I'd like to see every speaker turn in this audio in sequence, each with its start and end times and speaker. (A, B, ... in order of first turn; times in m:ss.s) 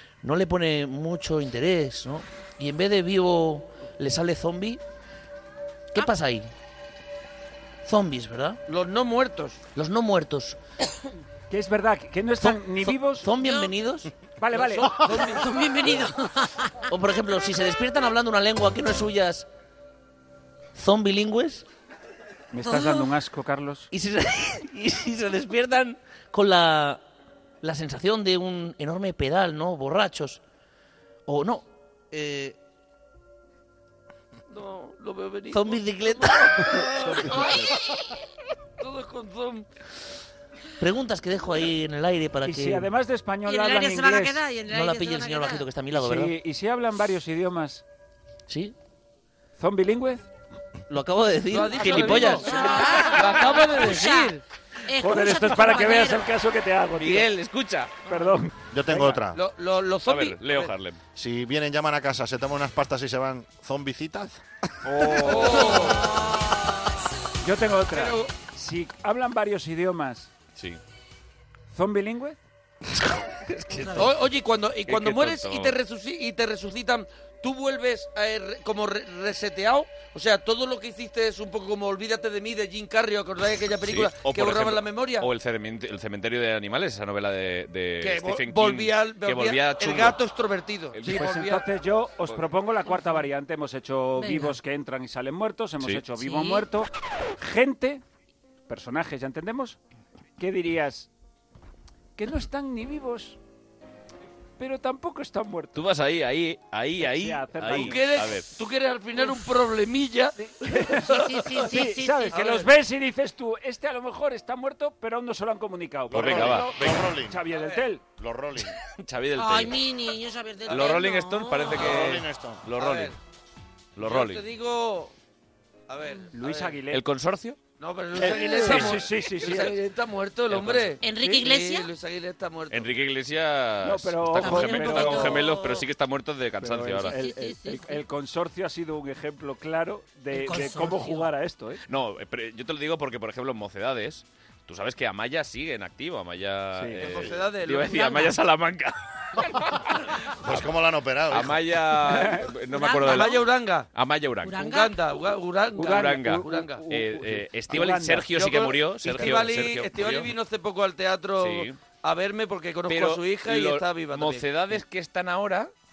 0:00.2-0:04.8 A
0:05.9-0:06.5 A
0:07.8-0:08.6 A
0:08.7-0:09.6 B
0:09.7-0:10.6 A
0:11.5-0:13.3 C
0:12.4-0:14.1 A
0:13.4-0:13.7 D
0:14.4-0:15.1 C
0:14.5-0:15.5 B
0:15.1-0:16.8 D
0:16.9-0:19.5 A
0:20.7-0:21.6 A
0:22.5-0:23.9 C
0:22.7-0:23.1 D
0:23.9-0:27.0 A
0:27.6-0:30.4 A
0:31.3-0:32.6 A
0:34.5-0:37.7 B
0:35.5-0:36.9 A
0:38.8-0:39.7 B
0:40.8-0:42.9 A
0:42.4-0:44.5 C
0:43.4-0:45.7 D
0:44.7-0:46.3 A
0:45.9-0:47.8 C
0:48.5-0:48.7 A
0:49.6-0:50.3 C
0:50.9-0:52.5 A
0:51.5-0:54.4 B
0:51.8-0:52.7 E
0:52.4-0:56.3 D
0:55.0-0:57.3 C
0:57.0-0:58.0 E
0:58.1-0:59.3 C
0:58.7-0:59.4 F
0:59.3-1:00.7 B
1:00.1-1:01.0 E
1:01.1-1:04.4 F
1:04.8-1:06.0 C
1:05.2-1:06.1 B
1:07.4-1:10.3 C
1:07.9-1:08.4 B
1:11.7-1:12.4 C
1:13.6-1:14.1 E
1:14.0-1:25.3 B
1:14.9-1:15.7 E
1:23.8-1:30.2 E
1:28.0-1:31.7 B
1:30.9-1:31.3 E
1:31.0-1:38.0 C
1:34.2-1:34.6 D
1:36.2-1:36.6 D
1:38.7-1:39.8 C
1:40.4-1:41.1 C
1:42.2-1:43.4 C
1:44.6-1:45.8 C
1:45.7-1:48.5 E
1:47.0-1:48.0 C
1:47.7-1:51.7 B
1:50.4-1:58.0 C
1:51.1-1:52.4 D
1:52.4-1:52.6 B
1:56.1-1:57.4 F
1:56.1-1:57.0 E
1:57.5-1:57.9 B
1:58.2-1:58.7 F
1:59.0-1:59.8 E
1:59.4-2:01.9 D
2:00.7-2:03.1 E
2:01.7-2:02.6 F
2:02.8-2:03.2 B
2:04.0-2:04.4 E
2:04.0-2:05.1 B
2:05.9-2:06.8 B
2:06.3-2:07.0 C
2:06.9-2:07.6 E
2:07.8-2:12.9 B
2:08.2-2:09.8 C
2:10.5-2:10.9 E
2:11.0-2:11.9 D
2:12.7-2:17.2 E
2:13.8-2:15.6 C
2:14.4-2:15.8 D
2:16.6-2:21.8 C
2:17.0-2:18.0 D
2:20.3-2:21.3 D
2:21.9-2:29.9 E
2:26.7-2:27.1 C
2:27.0-2:28.3 B
2:30.4-2:31.6 F
2:31.3-2:34.6 E
2:32.0-2:32.5 C
2:32.7-2:33.4 D
2:33.0-2:33.9 B
2:34.5-2:35.0 D
2:34.5-2:36.8 B
2:35.8-2:38.3 C
2:35.8-2:40.3 E
2:38.3-2:44.5 B
2:41.4-2:41.8 E
2:42.9-2:45.7 E